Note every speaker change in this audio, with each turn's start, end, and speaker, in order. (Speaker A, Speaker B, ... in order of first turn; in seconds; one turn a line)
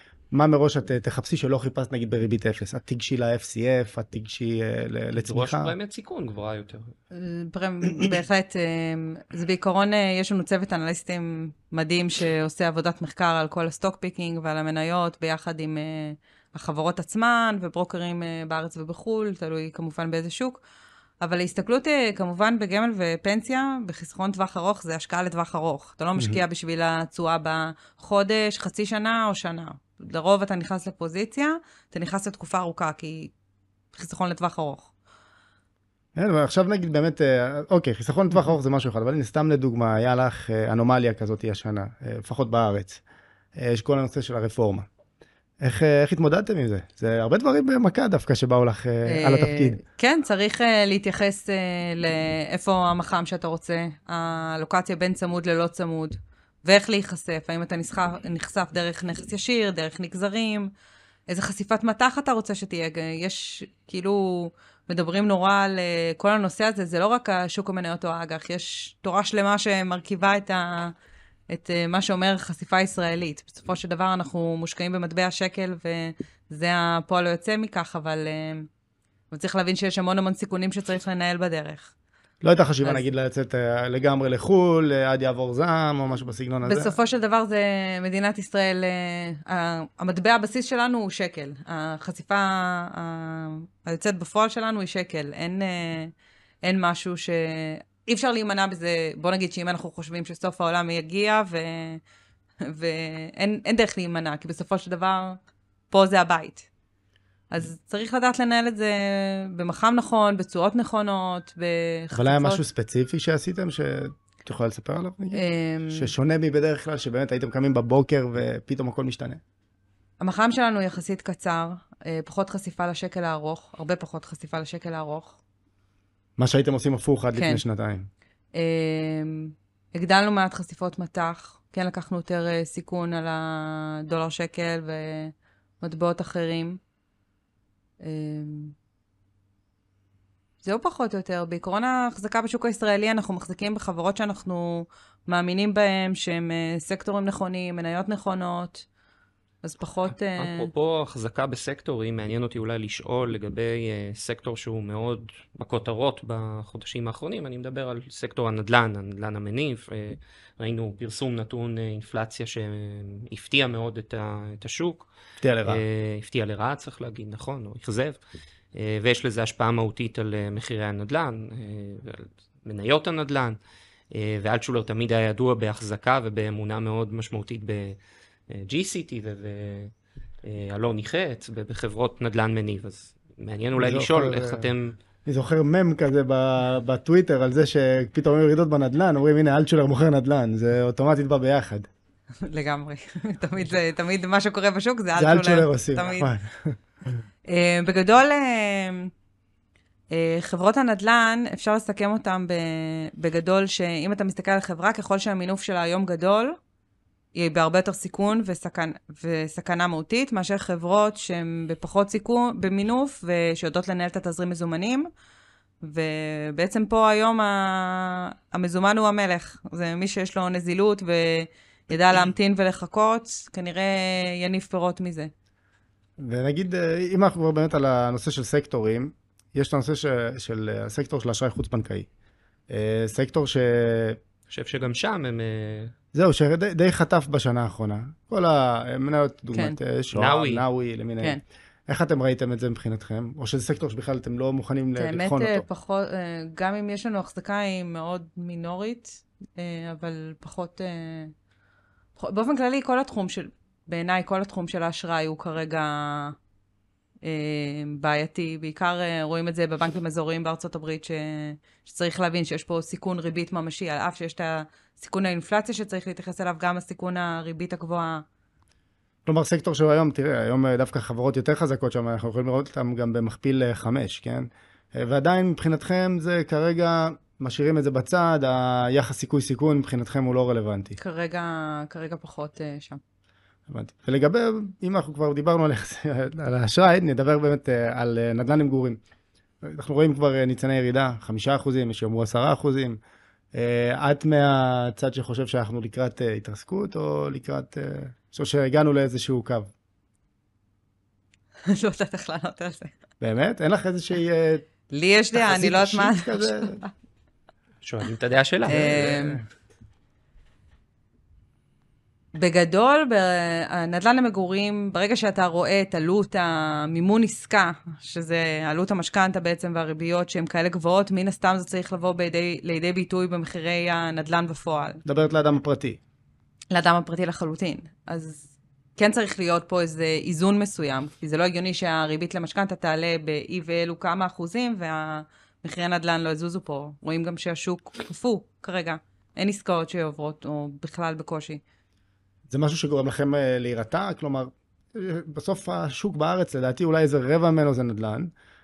Speaker A: 0.3-5.7
Speaker B: 5.2-6.9
Speaker C: 7.1-20.6
Speaker C: 21.2-33.3
Speaker C: 34.0-34.9
Speaker A: 36.1-43.0
Speaker A: 43.5-44.9
Speaker A: 45.6-49.8
Speaker C: 49.0-60.7
Speaker C: 61.3-70.9
Speaker C: 71.5-78.7
Speaker C: 79.3-81.9
Speaker A: 82.4-86.9
Speaker C: 86.6-96.1
Speaker C: 96.6-102.0
Speaker C: 102.6-105.4
Speaker C: 105.9-106.7
Speaker C: 107.5-112.6
Speaker A: 112.1-119.4
Speaker C: 115.3-116.1
Speaker C: 120.2-125.4
Speaker A: 126.4-128.1
Speaker C: 127.3-127.6
Speaker C: 128.5-136.8
Speaker C: 138.0-138.8
Speaker C: 140.6-148.8
Speaker C: 149.6-150.7
Speaker B: 150.4-165.1
Speaker A: 165.4-165.8
Speaker B: 165.7-168.2
Speaker B: 168.7-173.6
Speaker B: 174.1-178.0
Speaker B: 178.5-179.9
Speaker B: 180.4-184.9
Speaker A: 183.8-184.7
Speaker A: 185.2-191.9
Speaker C: 192.5-196.3
Speaker A: 195.2-196.8
Speaker C: 197.5-199.1
Speaker C: 200.1-206.6
Speaker C: 207.3-215.1
Speaker C: 215.8-225.3
Speaker A: 226.2-232.1
Speaker A: 232.7-234.2
Speaker B: 234.5-235.9
Speaker A: 236.1-245.7
Speaker B: 240.1-240.7
Speaker C: 245.0-251.3
Speaker C: 252.2-256.3
Speaker C: 257.2-268.2
Speaker A: 269.2-281.0
Speaker C: 281.0-283.0
Speaker A: 283.7-289.0
Speaker A: 289.6-293.0
Speaker A: 293.5-299.7
Speaker C: 301.7-302.9
Speaker A: 303.2-304.7
Speaker C: 304.9-306.9
Speaker A: 305.3-306.8
Speaker B: 307.8-309.2
Speaker C: 308.7-309.4
Speaker A: 308.7-309.4
Speaker C: 312.3-325.0
Speaker A: 325.0-326.0
Speaker C: 326.7-341.6
Speaker A: 342.5-348.3